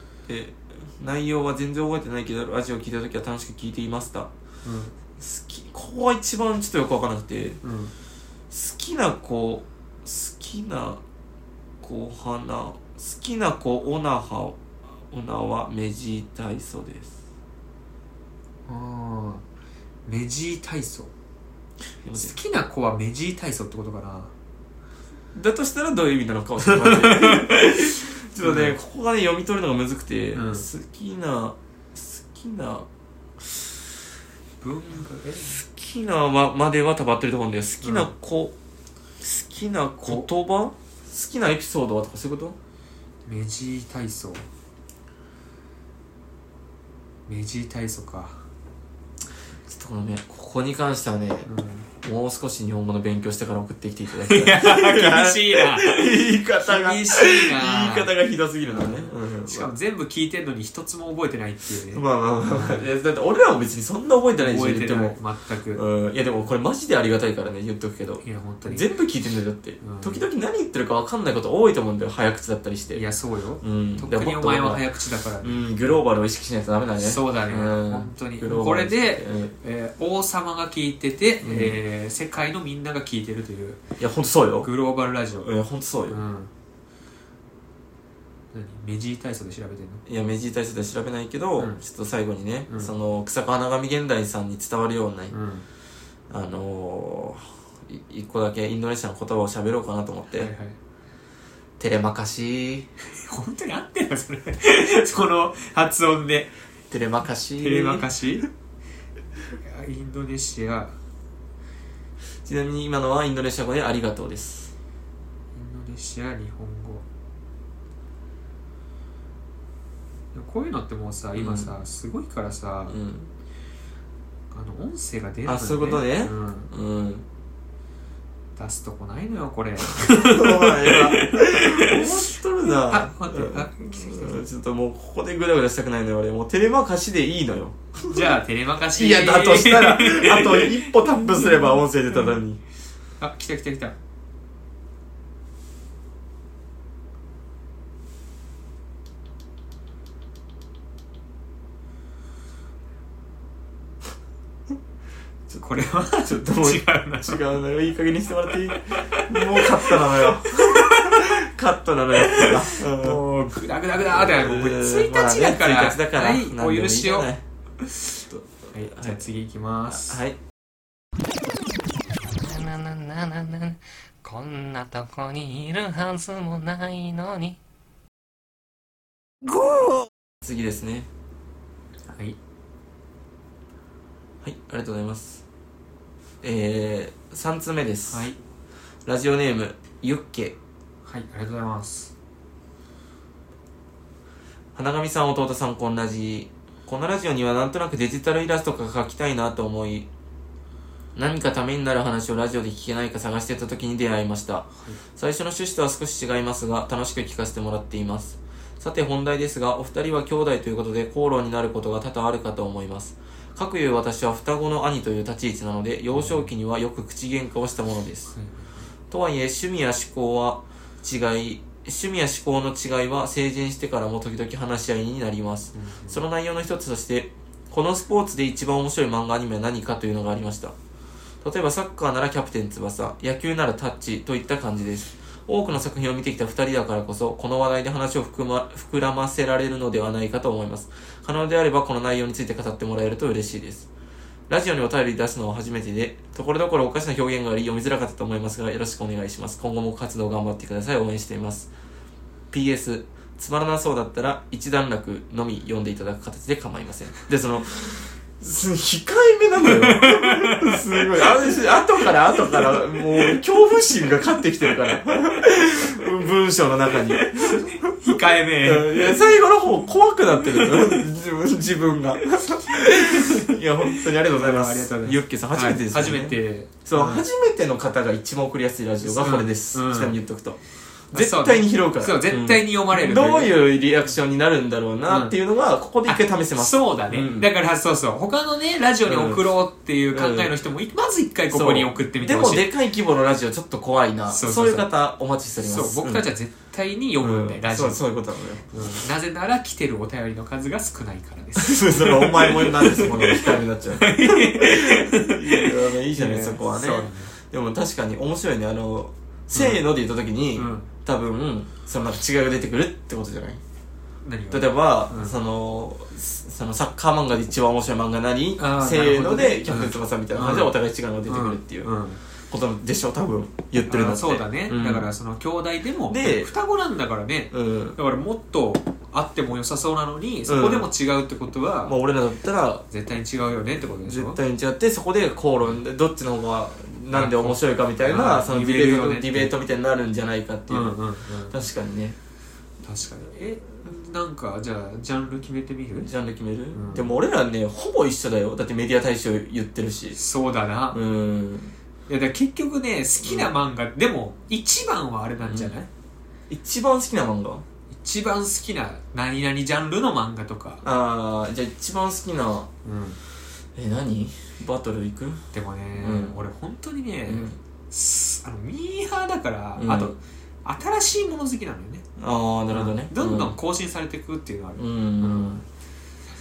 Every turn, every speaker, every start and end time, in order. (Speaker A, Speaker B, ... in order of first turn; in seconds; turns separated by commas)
Speaker A: 0.3-4.3, Speaker B: 4.6-4.9, Speaker A: 5.2-7.6, Speaker B: 7.6-7.9, Speaker A: 8.5-11.0, Speaker A: 11.8-17.1, Speaker B: 18.7-19.4, Speaker B: 20.1-21.1, Speaker A: 22.0-22.3, Speaker B: 22.1-24.3, Speaker A: 25.3-32.9, Speaker B: 26.6-27.6, Speaker B: 28.4-28.7, Speaker B: 30.3-30.7, Speaker B: 34.6-35.6, Speaker A: 35.5-38.5, Speaker B: 37.8-38.1, Speaker A: 39.2-42.6, Speaker B: 43.2-44.5, Speaker B: 47.3-48.4, Speaker A: 49.7-51.5, Speaker B: 51.4-51.9, Speaker A: 52.0-59.7, Speaker B: 54.2-58.1, Speaker B: 58.6-62.9, Speaker A: 61.9-65.2, Speaker B: 64.4-65.8, Speaker A: 65.7-73.0, Speaker B: 68.2-68.9, Speaker B: 69.8-70.2, Speaker B: 72.9-75.9, Speaker A: 73.6-74.8, Speaker A: 75.4-79.5, Speaker B: 77.0-83.8, Speaker A: 81.4-81.8, Speaker A: 84.0-84.7, Speaker B: 84.6-85.5, Speaker A: 85.4-86.2, Speaker B: 86.1-86.5, Speaker B: 88.5-90.0, Speaker A: 90.0-95.3, Speaker B: 91.6-91.8, Speaker B: 95.3-95.7, Speaker A: 96.3-100.5, Speaker B: 100.3-100.8, Speaker A: 101.8-102.9, Speaker B: 103.1-106.5, Speaker A: 106.9-108.1, Speaker B: 107.6-108.5, Speaker B: 109.6-110.9, Speaker A: 112.4-114.7, Speaker B: 115.5-117.0, Speaker B: 120.3-123.0, Speaker A: 121.3-121.8, Speaker A: 122.9-123.3, Speaker B: 124.5-126.7, Speaker A: 125.5-127.2, Speaker B: 128.6-134.4, Speaker A: 129.9-138.3, Speaker B: 138.0-141.8, Speaker A: 138.9-142.6, Speaker B: 143.2-143.9, Speaker A: 155.5-163.2, Speaker B: 155.6-157.4, Speaker B: 158.9-161.3, Speaker B: 162.2-167.3, Speaker A: 164.1-167.4, Speaker B: 167.8-168.1, Speaker A: 168.3-169.2, Speaker B: 168.7-170.2, Speaker A: 169.9-170.4, Speaker C: 172.3-177.6, Speaker A: 180.4-181.1, Speaker B: 182.1-182.4, Speaker A: 184.4-185.4, Speaker A: 186.4-188.3, Speaker B: 188.1-188.4, Speaker A: 189.0-190.6, Speaker B: 191.0-192.1, Speaker A: 194.7-200.1, Speaker A: 201.1-218.3, Speaker B: 216.1-216.5, Speaker B: 218.3-218.9, Speaker A: 219.1-230.8, Speaker B: 225.7-226.2, Speaker A: 231.4-243.9, Speaker A: 244.5-251.7, Speaker A: 252.5-280.6, Speaker B: 259.6-261.6, Speaker B: 267.1-269.2, Speaker B: 270.4-271.0, Speaker B: 272.4-277.2, Speaker B: 279.0-280.2, Speaker B: 281.1-283.5, Speaker A: 281.1-287.5, Speaker B: 285.1-285.3, Speaker B: 286.1-292.7, Speaker A: 289.1-289.4, Speaker A: 290.1-290.5, Speaker A: 291.5-296.2, Speaker B: 294.3-294.9, Speaker B: 295.6-298.0, Speaker A: 297.2-298.9, Speaker B: 298.7-307.3, Speaker A: 301.6-313.6, Speaker B: 309.5-309.8, Speaker B: 310.6-310.9, Speaker B: 314.2-315.4, Speaker A: 314.5-321.9, Speaker B: 318.6-320.7, Speaker B: 321.2-322.2, Speaker A: 322.5-325.1, Speaker B: 323.8-332.0, Speaker A: 326.1-326.5, Speaker A: 327.5-328.0, Speaker A: 330.4-330.9, Speaker A: 331.9-332.9, Speaker B: 332.9-334.4, Speaker A: 333.8-341.0, Speaker B: 337.1-339.5, Speaker B: 340.7-341.6, Speaker A: 341.5-342.2, Speaker B: 342.8-346.1, Speaker A: 346.0-350.2, Speaker B: 346.7-347.1, Speaker B: 350.1-351.0, Speaker A: 350.9-351.7, Speaker B: 352.1-355.9, Speaker A: 353.2-353.5, Speaker A: 355.4-355.8, Speaker A: 356.5-357.6, Speaker B: 357.9-360.8, Speaker A: 360.8-362.7, Speaker B: 362.8-363.2, Speaker A: 363.7-365.4, Speaker B: 365.5-372.1, Speaker A: 366.0-366.4, Speaker A: 367.3-367.6, Speaker A: 369.8-370.1, Speaker A: 372.2-373.6, Speaker B: 372.7-375.6, Speaker A: 374.8-375.6